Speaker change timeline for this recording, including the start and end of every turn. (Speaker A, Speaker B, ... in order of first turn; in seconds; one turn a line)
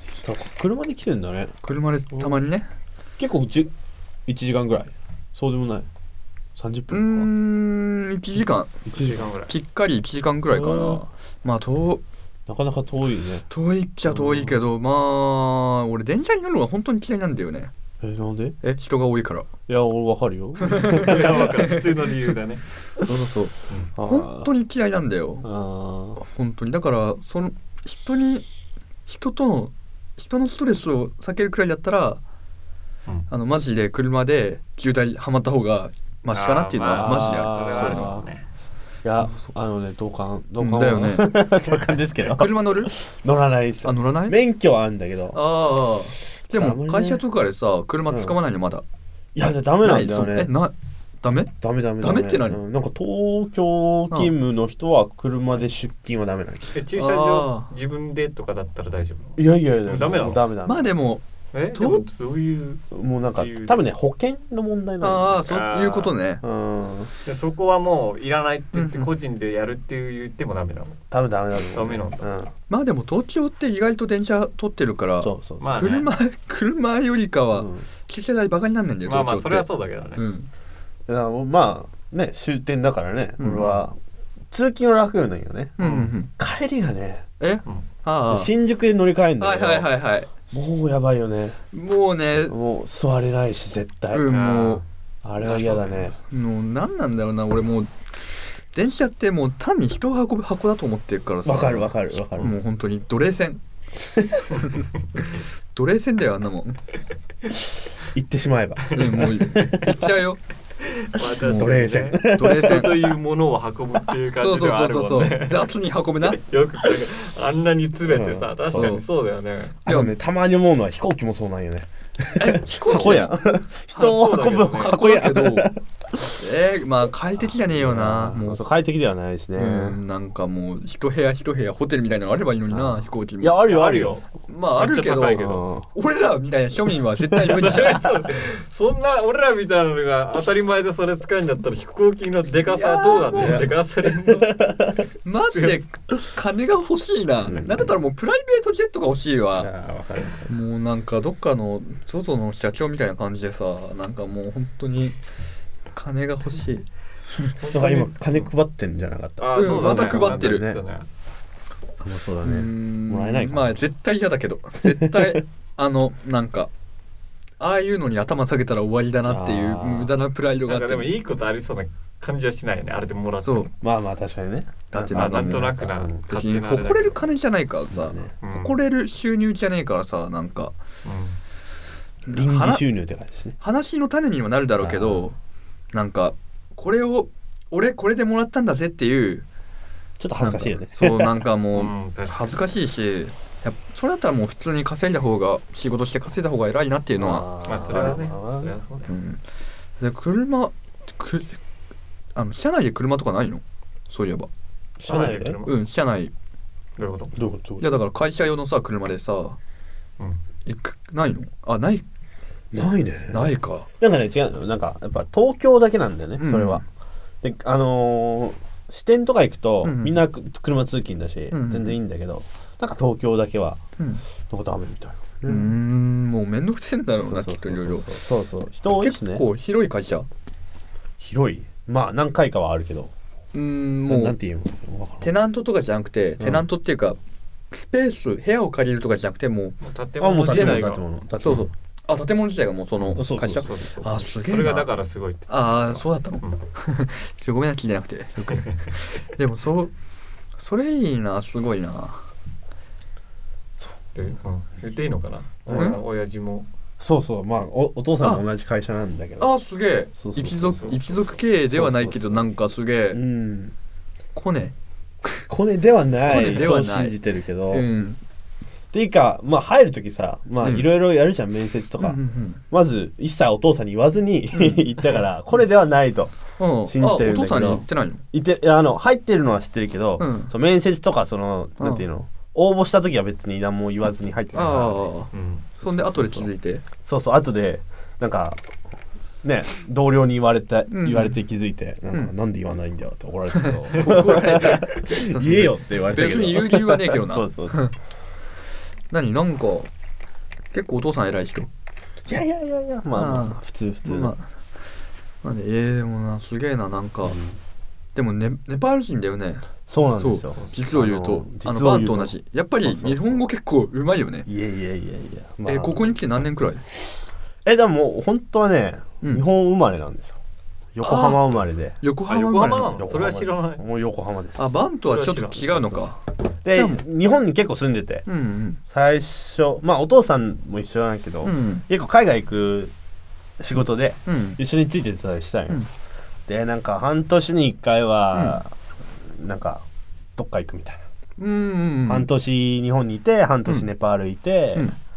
Speaker A: 0.2-1.6
Speaker B: 1.6-2.7
Speaker A: 3.2-3.7
Speaker A: 4.3-5.9
Speaker A: 6.6-7.3
Speaker B: 6.9-8.8
Speaker A: 8.9-9.3
Speaker C: 8.9-9.5
Speaker B: 9.5-12.0
Speaker A: 10.5-11.0
Speaker A: 12.5-13.5
Speaker B: 13.5-17.7
Speaker A: 14.1-14.6
Speaker A: 18.0-18.6
Speaker B: 18.6-19.5
Speaker A: 19.7-21.8
Speaker B: 20.7-21.8
Speaker C: 20.9-22.6
Speaker B: 23.0-25.5
Speaker A: 24.0-24.5
Speaker A: 25.4-26.2
Speaker B: 26.2-28.4
Speaker B: 29.1-32.2
Speaker B: 33.3-38.2
Speaker C: 36.3-38.5
Speaker A: 36.9-38.3
Speaker A: 39.0-45.4
Speaker B: 39.2-39.5
Speaker B: 40.6-41.4
Speaker B: 42.2-42.9
Speaker B: 43.8-44.4
Speaker B: 45.3-48.8
Speaker A: 46.5-47.2
Speaker A: 48.1-48.4
Speaker A: 49.4-50.5
Speaker B: 49.8-52.6
Speaker A: 51.6-56.7
Speaker C: 56.7-60.4
Speaker B: 57.0-57.7
Speaker A: 59.4-60.9
Speaker B: 60.7-61.2
Speaker C: 61.5-62.8
Speaker B: 61.7-62.0
Speaker A: 62.9-65.4
Speaker C: 63.4-63.8
Speaker B: 65.0-66.4
Speaker C: 65.5-66.1
Speaker A: 66.4-67.1
Speaker C: 67.2-71.0
Speaker B: 68.8-69.1
Speaker A: 71.1-72.5
Speaker C: 71.7-72.2
Speaker B: 72.7-80.5
Speaker A: 75.2-75.8
Speaker C: 75.6-76.1
Speaker A: 77.5-77.8
Speaker C: 79.1-80.2
Speaker A: 81.1-84.0
Speaker B: 83.4-83.7
Speaker C: 83.6-83.8
Speaker A: 84.5-87.2
Speaker B: 85.8-86.3
Speaker C: 85.8-86.1
Speaker B: 87.4-88.5
Speaker A: 88.3-89.9
Speaker B: 89.4-90.3
Speaker A: 90.5-91.6
Speaker B: 91.7-92.5
Speaker A: 92.5-94.3
Speaker B: 94.1-94.8
Speaker C: 94.3-94.8
Speaker A: 95.2-96.2
Speaker C: 95.4-96.1
Speaker B: 96.3-97.9
Speaker B: 98.7-103.6
Speaker A: 101.5-102.5
Speaker A: 104.2-104.5
Speaker B: 104.6-104.8
Speaker B: 105.8-106.8
Speaker A: 108.1-110.1
Speaker B: 108.9-110.4
Speaker C: 111.0-115.7
Speaker A: 111.3-113.1
Speaker B: 111.4-113.1
Speaker B: 114.3-116.4
Speaker C: 116.2-119.8
Speaker A: 118.1-119.0
Speaker B: 118.7-119.0
Speaker A: 119.8-126.4
Speaker B: 119.9-120.1
Speaker B: 122.4-123.4
Speaker C: 123.9-125.0
Speaker B: 124.6-125.7
Speaker B: 126.3-128.6
Speaker A: 127.6-130.0
Speaker B: 129.6-133.6
Speaker A: 132.7-134.2
Speaker C: 133.6-134.2
Speaker B: 134.5-138.1
Speaker C: 134.8-135.7
Speaker A: 135.4-135.9
Speaker A: 137.3-137.8
Speaker C: 137.5-144.8
Speaker B: 142.7-143.7
Speaker A: 143.3-145.1
Speaker B: 145.2-149.7
Speaker C: 145.5-145.8
Speaker A: 147.5-147.9
Speaker A: 149.6-150.5
Speaker B: 150.5-155.2
Speaker B: 155.9-156.9
Speaker C: 157.6-158.5
Speaker A: 157.7-160.8
Speaker C: 159.4-161.1
Speaker B: 159.6-160.7
Speaker A: 162.0-163.8
Speaker B: 162.4-166.7
Speaker A: 164.8-165.4
Speaker B: 167.6-171.1
Speaker A: 169.3-170.1
Speaker C: 170.7-173.7
Speaker B: 173.4-173.7
Speaker A: 173.8-176.2
Speaker B: 174.9-175.8
Speaker C: 175.1-177.2
Speaker B: 176.3-180.8
Speaker A: 177.9-178.3
Speaker C: 178.4-178.8
Speaker C: 181.0-181.4
Speaker B: 182.3-182.8
Speaker A: 182.3-183.6
Speaker B: 183.6-185.3
Speaker A: 184.8-185.2
Speaker B: 185.9-189.4
Speaker A: 190.2-191.4
Speaker B: 190.4-198.2
Speaker C: 191.7-192.7
Speaker A: 197.2-198.7
Speaker C: 197.7-199.2
Speaker B: 199.1-199.4
Speaker B: 200.0-201.6
Speaker B: 202.3-204.5
Speaker A: 205.0-205.6
Speaker C: 205.1-205.8
Speaker B: 205.7-206.3
Speaker C: 207.0-207.4
Speaker A: 207.4-208.0
Speaker B: 207.8-209.6
Speaker B: 210.7-212.1
Speaker A: 212.7-216.8
Speaker B: 213.3-213.9
Speaker B: 216.4-216.8
Speaker A: 217.4-223.8
Speaker B: 219.8-220.2
Speaker B: 221.5-222.0
Speaker A: 224.5-225.7
Speaker B: 225.4-228.1
Speaker A: 227.2-229.4
Speaker B: 228.9-230.3
Speaker A: 231.2-233.1
Speaker B: 233.5-234.4
Speaker A: 234.1-235.3
Speaker B: 235.2-237.2
Speaker A: 236.4-236.7
Speaker B: 237.7-239.8
Speaker C: 239.8-241.0
Speaker A: 240.2-241.7
Speaker B: 240.5-240.9
Speaker B: 241.4-244.9
Speaker C: 243.0-246.6
Speaker A: 243.2-243.7
Speaker B: 245.5-249.9
Speaker C: 248.5-248.9
Speaker B: 250.6-252.2
Speaker C: 254.2-256.7
Speaker A: 255.7-256.0
Speaker B: 255.7-256.0
Speaker A: 257.0-259.5
Speaker B: 259.4-263.2
Speaker A: 260.2-261.1
Speaker C: 260.7-261.2
Speaker A: 261.7-262.5
Speaker A: 263.1-263.7
Speaker B: 264.4-264.7
Speaker A: 265.5-267.9
Speaker B: 266.2-267.2
Speaker B: 267.7-268.2
Speaker A: 268.9-276.3
Speaker B: 270.6-270.9
Speaker B: 272.0-272.6
Speaker B: 274.5-274.9
Speaker B: 276.6-278.2
Speaker A: 276.9-285.1
Speaker B: 280.2-280.5
Speaker B: 284.5-285.3
Speaker C: 285.3-285.7
Speaker A: 285.8-286.5
Speaker B: 285.8-286.8
Speaker A: 287.0-288.6
Speaker A: 289.4-297.9
Speaker B: 290.9-291.4
Speaker B: 293.6-297.9
Speaker B: 299.1-299.9
Speaker B: 300.7-301.7
Speaker A: 302.3-304.4
Speaker B: 303.1-304.5
Speaker B: 305.4-307.4
Speaker A: 307.2-307.6
Speaker B: 308.1-314.5
Speaker A: 309.9-313.4
Speaker A: 314.5-316.1
Speaker B: 315.7-316.8
Speaker A: 317.6-320.4
Speaker A: 320.9-322.0
Speaker B: 321.0-321.4
Speaker B: 322.0-323.0
Speaker C: 322.3-323.8
Speaker A: 322.9-324.8
Speaker B: 324.6-326.2
Speaker C: 325.1-325.9
Speaker A: 326.6-328.3
Speaker B: 326.7-327.0
Speaker B: 328.3-328.8
Speaker A: 328.9-332.9
Speaker B: 331.4-331.8
Speaker A: 333.6-335.9
Speaker B: 334.3-334.6
Speaker A: 336.5-338.7
Speaker B: 338.3-338.6
Speaker A: 339.3-339.8
Speaker A: 340.4-341.0
Speaker B: 341.4-342.3
Speaker A: 342.1-344.9